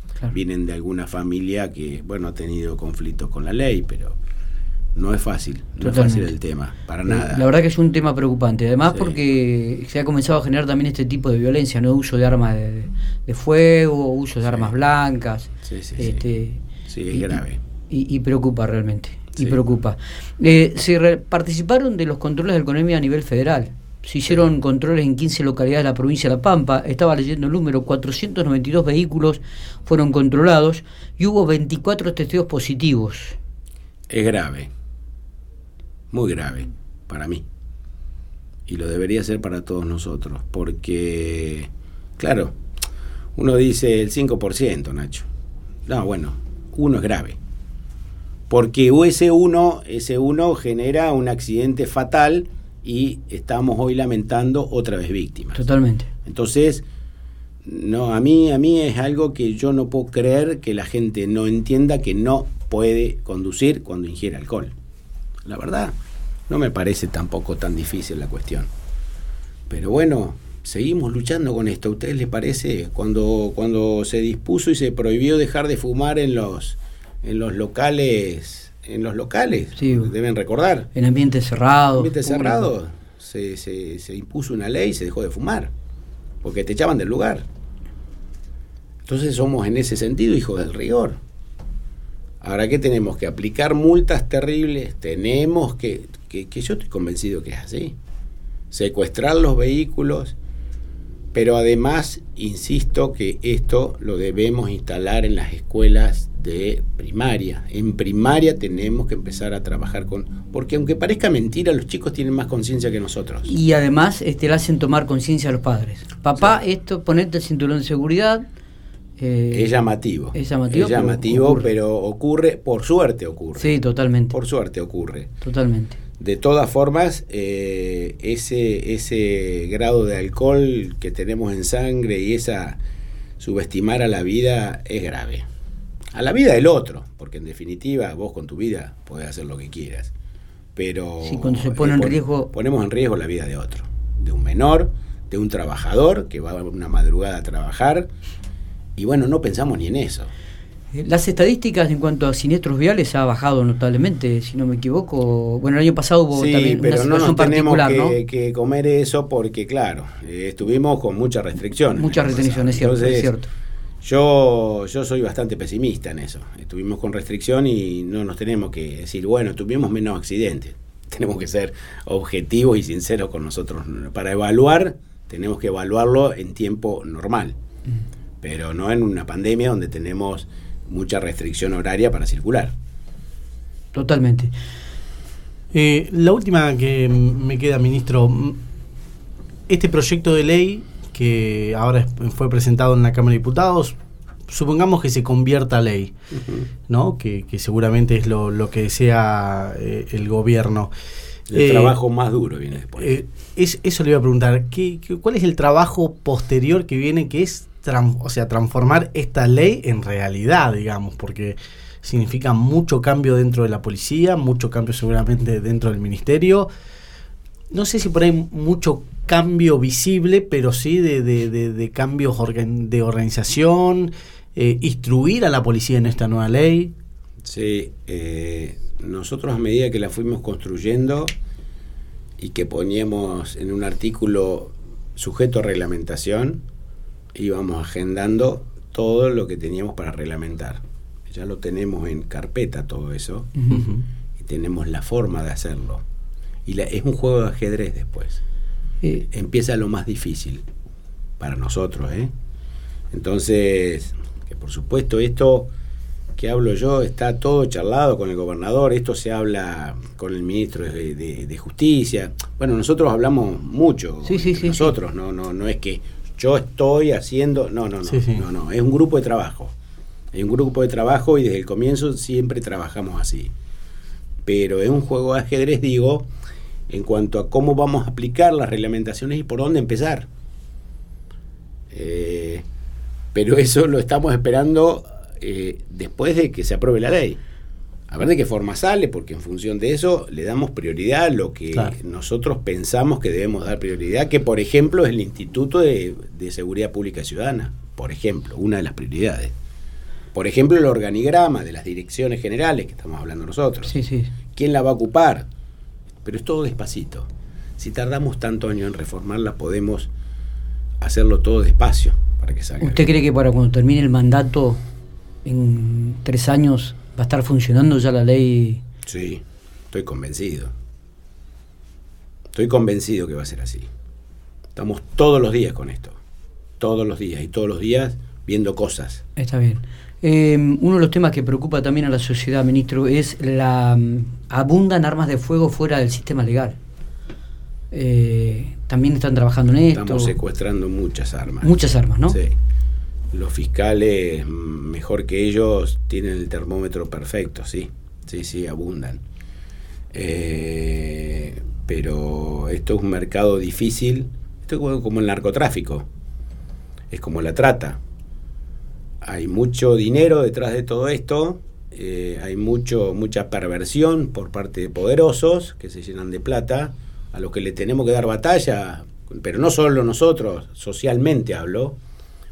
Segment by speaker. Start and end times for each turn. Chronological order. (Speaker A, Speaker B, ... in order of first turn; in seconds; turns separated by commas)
Speaker A: 0.3-4.2, Speaker A: 5.0-7.5, Speaker B: 5.8-6.3, Speaker B: 7.1-33.4, Speaker A: 8.9-9.2, Speaker A: 14.5-14.7, Speaker A: 15.6-16.2, Speaker A: 16.9-17.6, Speaker A: 34.1-34.7, Speaker A: 36.1-37.4, Speaker A: 38.7-42.5, Speaker A: 43.4-45.3, Speaker A: 45.9-47.4, Speaker A: 48.5-55.6, Speaker B: 55.5-56.1, Speaker A: 56.2-56.9, Speaker A: 57.6-64.7, Speaker A: 65.5-65.9, Speaker A: 66.5-68.7, Speaker A: 69.7-80.9, Speaker B: 79.8-80.1, Speaker B: 81.0-82.7, Speaker A: 82.0-85.7, Speaker A: 86.4-87.5, Speaker A: 89.1-91.2, Speaker A: 92.4-98.0, Speaker A: 98.7-100.4, Speaker A: 101.3-113.5, Speaker B: 113.5-118.5, Speaker B: 119.2-119.7, Speaker A: 119.5-123.8, Speaker B: 120.3-121.7, Speaker B: 123.6-124.3, Speaker A: 124.3-125.3, Speaker B: 125.4-126.0, Speaker A: 126.2-132.8, Speaker A: 133.4-135.5, Speaker A: 136.1-140.1, Speaker A: 140.8-148.1, Speaker B: 141.2-142.5, Speaker A: 149.0-150.3, Speaker B: 150.9-158.2, Speaker A: 156.3-163.3, Speaker B: 162.0-163.5, Speaker A: 164.0-177.6, Speaker A: 178.4-182.7, Speaker B: 183.9-184.5, Speaker C: 185.7-188.6, Speaker C: 189.7-194.0, Speaker C: 194.5-196.1, Speaker A: 196.3-196.7, Speaker C: 196.9-200.9, Speaker A: 201.5-203.2, Speaker C: 201.5-201.9, Speaker C: 203.0-216.7, Speaker C: 217.7-226.9, Speaker A: 227.4-231.3, Speaker A: 232.4-236.6, Speaker A: 237.3-243.6, Speaker B: 243.6-243.9, Speaker C: 243.7-244.0, Speaker A: 244.4-246.0, Speaker A: 246.7-248.4, Speaker A: 249.3-250.6, Speaker A: 251.4-252.3, Speaker A: 253.1-255.7, Speaker A: 256.4-269.7, Speaker B: 264.3-264.9, Speaker C: 268.1-268.4, Speaker A: 270.3-273.5, Speaker A: 274.5-276.3, Speaker A: 276.9-280.3, Speaker A: 281.9-282.6, Speaker A: 283.3-287.4, Speaker A: 288.1-299.5, Speaker A: 300.3-303.9, Speaker B: 303.9-304.3, Speaker A: 304.5-305.5, Speaker A: 306.2-310.1, Speaker A: 311.0-313.1, Speaker B: 312.8-314.8, Speaker B: 315.4-318.8, Speaker A: 319.1-320.7, Speaker A: 322.5-323.9, Speaker A: 324.8-326.2, Speaker A: 326.8-329.2, Speaker B: 329.4-336.8, Speaker B: 337.9-340.4, Speaker A: 339.9-342.5, Speaker B: 341.6-342.4, Speaker A: 343.3-349.2, Speaker A: 350.1-356.1, Speaker A: 357.1-358.0, Speaker A: 359.2-372.0